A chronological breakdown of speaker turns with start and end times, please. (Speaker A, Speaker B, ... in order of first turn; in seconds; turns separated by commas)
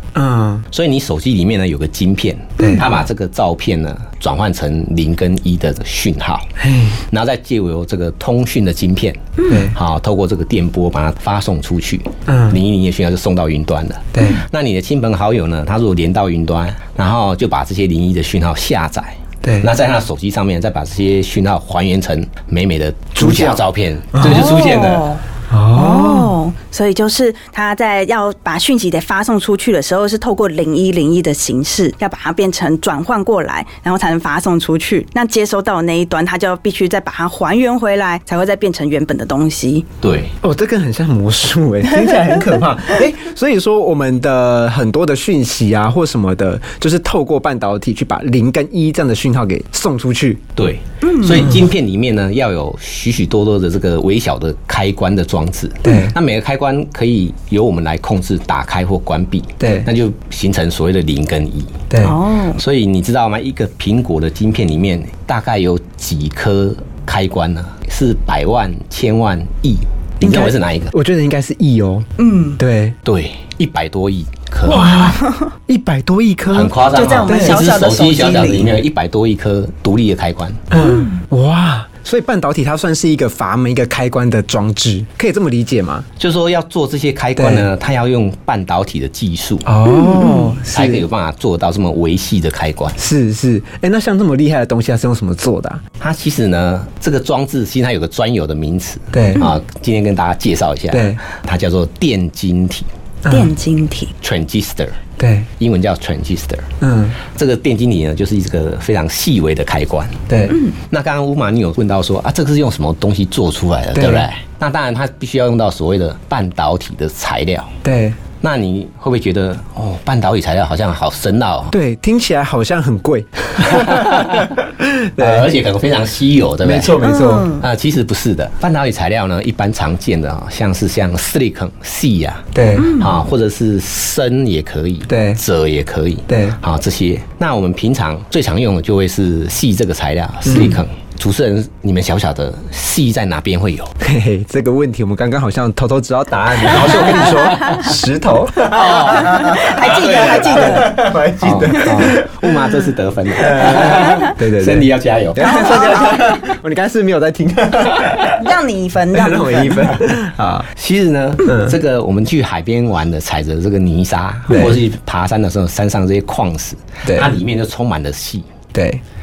Speaker A: 0.1-0.6, Speaker B: 0.7-6.5, Speaker A: 2.6-2.9, Speaker A: 6.6-7.0, Speaker B: 7.1-25.1, Speaker C: 9.4-9.7, Speaker A: 9.5-9.7, Speaker A: 12.3-12.6, Speaker A: 14.1-14.4, Speaker A: 19.4-19.7, Speaker A: 23.1-23.6, Speaker A: 24.1-24.4, Speaker C: 24.2-39.9, Speaker A: 25.5-26.3, Speaker B: 40.0-40.3, Speaker A: 40.4-50.4, Speaker C: 42.0-42.4, Speaker B: 50.5-61.8, Speaker C: 51.0-51.5, Speaker A: 55.8-56.1, Speaker A: 59.6-59.9, Speaker A: 61.9-62.2, Speaker C: 62.0-62.6, Speaker B: 62.5-70.9, Speaker A: 70.2-72.1, Speaker C: 72.2-72.6, Speaker A: 72.6-72.9, Speaker B: 73.0-75.1, Speaker A: 74.7-77.6, Speaker C: 74.7-75.5, Speaker B: 76.5-80.6, Speaker C: 76.9-78.7, Speaker A: 80.7-86.0, Speaker C: 80.8-81.2, Speaker B: 86.2-89.7, Speaker A: 87.3-87.7, Speaker A: 89.6-91.0, Speaker C: 89.8-90.6, Speaker B: 90.7-93.0, Speaker A: 93.0-95.8, Speaker B: 96.0-102.9, Speaker A: 99.1-99.5, Speaker A: 100.9-101.2, Speaker A: 103.2-103.5, Speaker C: 103.3-104.1, Speaker B: 104.2-105.0, Speaker A: 105.2-105.5, Speaker B: 105.6-110.2, Speaker A: 106.8-107.2, Speaker A: 110.3-110.6, Speaker C: 110.5-110.7, Speaker B: 110.8-117.7, Speaker A: 113.9-114.3, Speaker A: 117.8-118.2, Speaker B: 118.4-121.7, Speaker A: 121.7-125.5, Speaker B: 123.7-124.5, Speaker B: 125.2-143.9, Speaker A: 126.6-127.5, Speaker C: 127.0-127.6, Speaker A: 132.5-132.9, Speaker C: 132.7-133.2, Speaker A: 135.1-135.4, Speaker A: 136.3-136.6, Speaker A: 140.4-140.8, Speaker A: 144.0-158.5, Speaker B: 146.6-147.8, Speaker B: 148.7-156.1, Speaker C: 148.9-151.1, Speaker C: 155.4-156.4, Speaker C: 158.3-160.0, Speaker A: 159.1-160.7, Speaker B: 160.7-168.5, Speaker A: 161.4-161.8, Speaker A: 164.5-164.8, Speaker A: 167.0-167.3, Speaker A: 168.7-169.0